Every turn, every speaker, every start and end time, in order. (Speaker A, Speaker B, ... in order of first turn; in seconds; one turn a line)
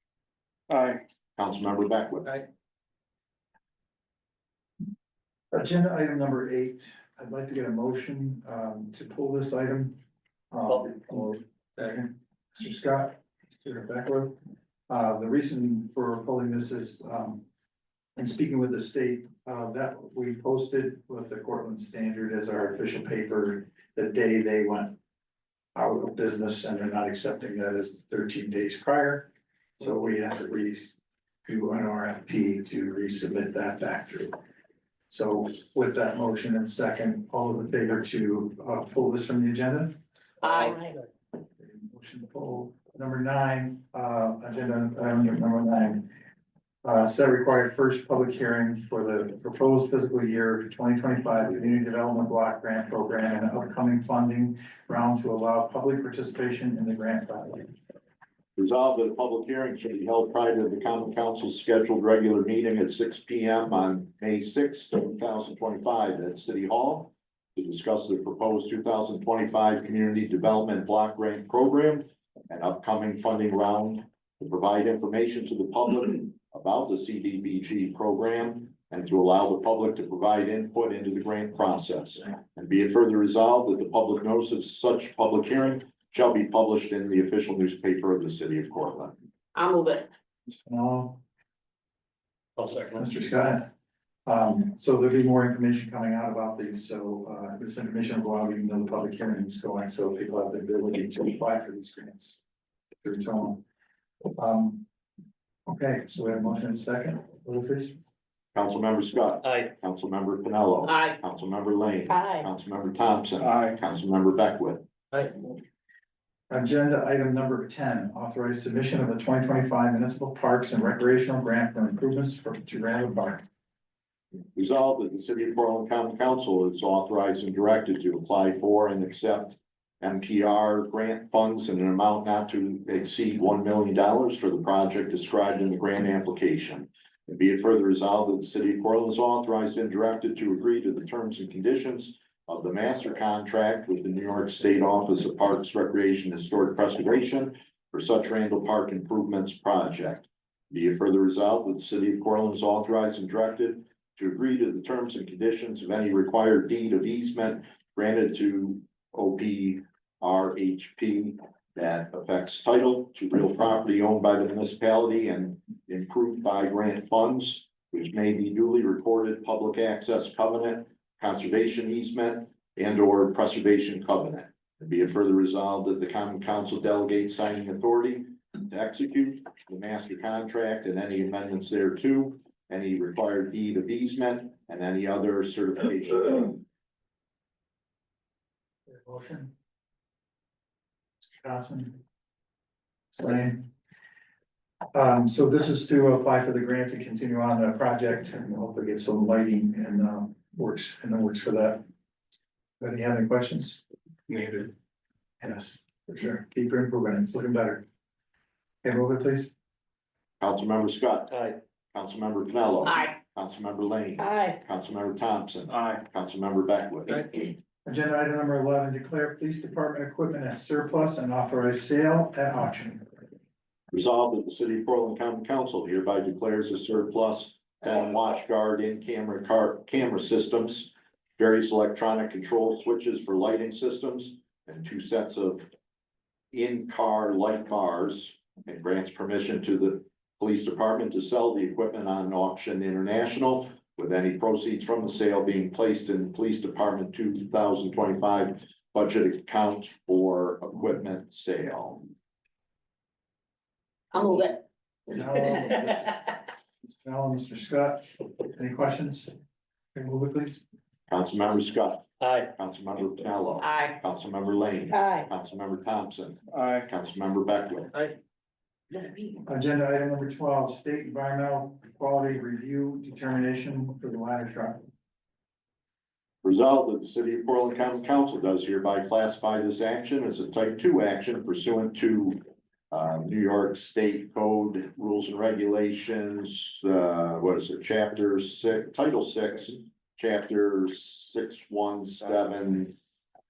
Speaker A: 0.7-1.0
Speaker B: 1.4-2.4
Speaker C: 5.5-10.0
Speaker C: 10.5-14.3
Speaker C: 14.9-17.4
Speaker C: 18.1-24.9
Speaker C: 25.7-34.3
Speaker C: 35.1-39.9
Speaker D: 40.4-40.9
Speaker C: 40.5-40.8
Speaker C: 41.6-46.1
Speaker C: 46.8-57.7
Speaker B: 58.5-89.1
Speaker D: 89.5-90.1
Speaker C: 90.5-91.2
Speaker A: 92.6-93.0
Speaker C: 92.9-93.7
Speaker C: 94.2-102.4
Speaker C: 103.0-103.6
Speaker C: 104.4-104.8
Speaker C: 105.7-107.9
Speaker B: 108.5-114.8
Speaker D: 110.8-111.2
Speaker D: 112.1-112.5
Speaker A: 113.4-113.8
Speaker C: 116.5-123.4
Speaker B: 124.5-186.6
Speaker C: 188.9-189.5
Speaker C: 191.4-192.0
Speaker C: 193.1-193.7
Speaker C: 194.9-201.8
Speaker C: 202.8-203.8
Speaker A: 204.3-204.7
Speaker C: 205.4-207.8
Speaker C: 208.8-209.5
Speaker B: 210.4-211.4
Speaker A: 211.3-211.6
Speaker B: 211.9-217.5
Speaker D: 212.8-213.1
Speaker D: 214.2-214.6
Speaker A: 215.7-216.0
Speaker C: 217.8-223.0
Speaker B: 223.9-235.7
Speaker B: 236.5-252.0
Speaker D: 254.1-256.3
Speaker C: 255.1-256.3
Speaker C: 257.0-259.3
Speaker C: 259.9-260.6
Speaker B: 261.1-267.9
Speaker A: 262.2-262.5
Speaker D: 263.6-264.0
Speaker D: 264.9-265.3
Speaker A: 266.5-266.9
Speaker C: 269.4-274.9
Speaker B: 276.4-282.4
Speaker B: 282.9-292.9